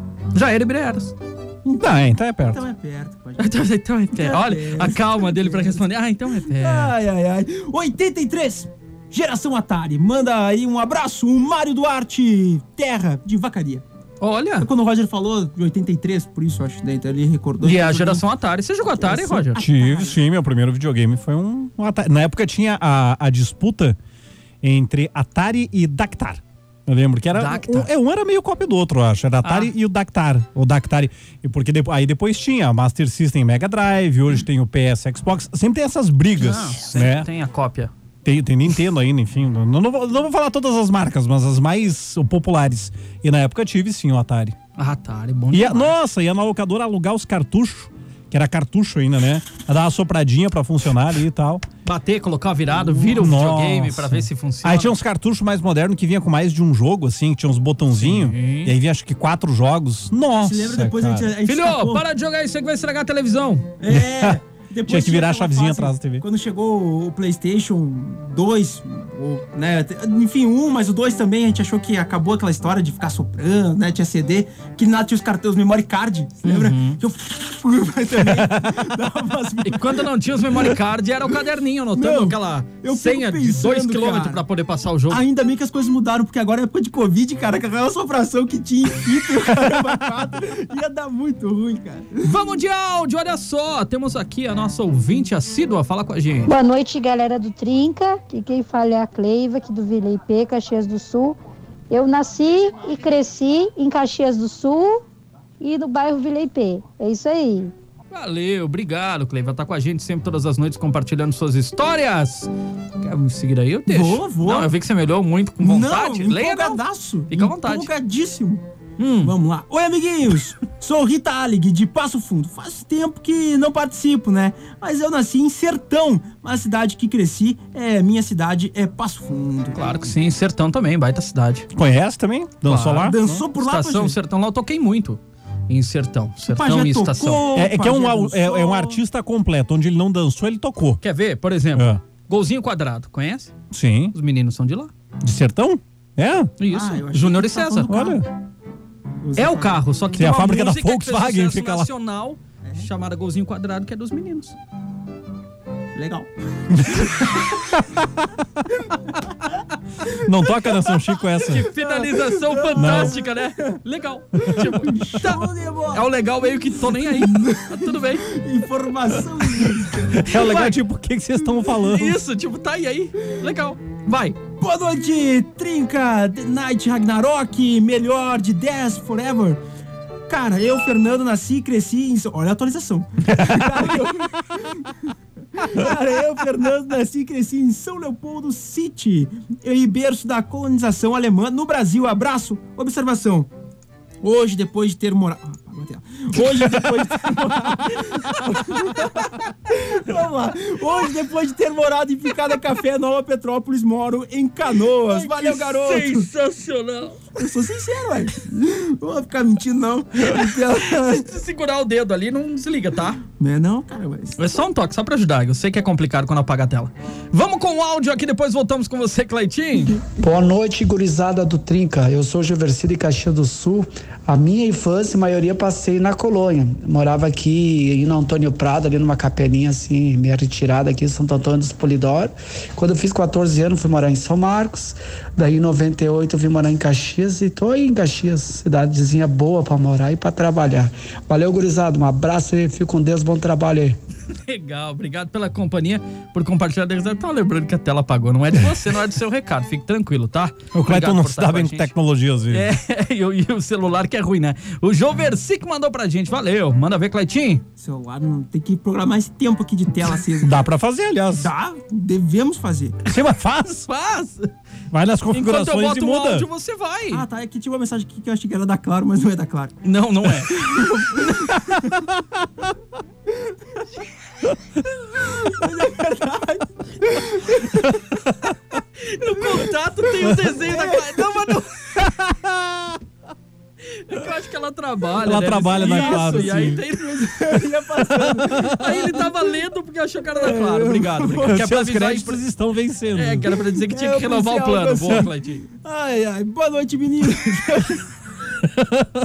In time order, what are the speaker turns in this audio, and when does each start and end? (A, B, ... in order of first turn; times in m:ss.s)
0:00.3-0:01.1 A
0:01.6-0:03.5 B
0:01.8-0:02.6 C
0:03.4-0:06.9 A
0:04.1-0:05.8 B
0:06.4-0:13.8 B
0:14.2-0:14.7 A
0:14.6-0:18.2 B
0:17.6-0:19.6 A
0:19.0-0:20.2 B
0:19.6-0:24.0 C
0:24.6-0:37.3 C
0:27.3-0:27.9 A
0:29.4-0:29.7 A
0:36.4-0:37.9 A
0:38.2-0:44.6 C
0:44.8-0:46.0 A
0:45.5-0:51.6 C
0:51.8-0:55.0 A
0:53.1-1:01.3 C
0:57.9-0:58.7 A
1:00.4-1:02.0 B
1:01.4-1:03.7 A
1:03.8-1:20.8 B
1:03.9-1:06.2 C
1:16.4-1:17.0 A
1:18.2-1:18.8 C
1:19.6-1:25.2 A
1:21.9-1:24.4 B
1:25.1-1:32.3 B
1:32.2-1:36.5 A
1:36.5-1:41.4 D
1:41.9-1:45.0 D
1:45.6-1:47.7 D
1:48.1-1:57.9 A
1:53.9-1:54.7 B
1:55.6-1:58.6 B
1:59.0-1:59.3 A
1:59.2-2:09.9 B
2:09.7-2:11.7 A
2:11.7-2:13.4 C
2:12.6-2:17.4 A
2:13.0-2:14.2 B
2:16.5-2:19.0 B
2:17.5-2:21.0 C
2:21.0-2:23.5 A
2:21.7-2:22.0 C
2:23.7-2:24.1 C
2:24.1-2:24.9 A
2:25.2-2:26.5 C
2:26.6-2:27.9 A
2:26.7-2:28.2 B
2:27.9-2:28.2 C
2:29.2-2:29.8 B
2:29.4-2:34.6 A
2:30.2-2:31.9 C
2:32.6-2:32.9 B
2:35.9-2:37.5 B
2:40.2-2:41.7 C
2:40.6-2:40.9 B
2:41.5-2:48.3 A
2:41.8-2:43.8 B
2:42.8-2:43.2 C
2:44.4-2:46.1 B
2:46.9-2:50.2 B
2:50.2-2:52.2 C
2:50.2-2:50.8 A
2:51.8-2:54.4 A
2:54.6-2:59.6 B
3:00.3-3:13.5 B
3:03.3-3:03.8 C
3:14.2-3:26.3 B
3:18.2-3:18.7 A
3:25.1-3:27.3 A
3:27.4-3:31.3 B
3:30.9-3:33.2 A
3:33.4-3:34.4 B
3:34.4-3:40.0 A
3:40.2-4:04.0 E
4:04.3-4:11.9 A
4:10.7-4:12.7 C
4:12.5-4:17.6 A
4:17.8-4:20.6 B
4:20.4-4:21.5 C
4:21.4-4:23.0 B
4:23.1-4:23.8 C
4:23.6-4:24.5 A
4:24.9-4:26.5 C
4:25.3-4:27.2 A
4:27.1-4:29.8 B
4:29.8-4:31.4 A
4:30.5-4:32.0 B
4:35.2-4:38.0 B
4:39.0-4:41.9 A
4:40.3-4:41.2 B
4:42.0-4:43.0 C
4:43.9-4:47.4 A
4:45.2-4:46.8 C
4:45.7-4:49.2 B
4:48.1-4:48.8 C
4:48.6-4:52.4 A
4:50.3-4:51.6 B
4:51.4-4:53.5 C
4:53.1-4:55.6 A
4:53.7-4:58.1 B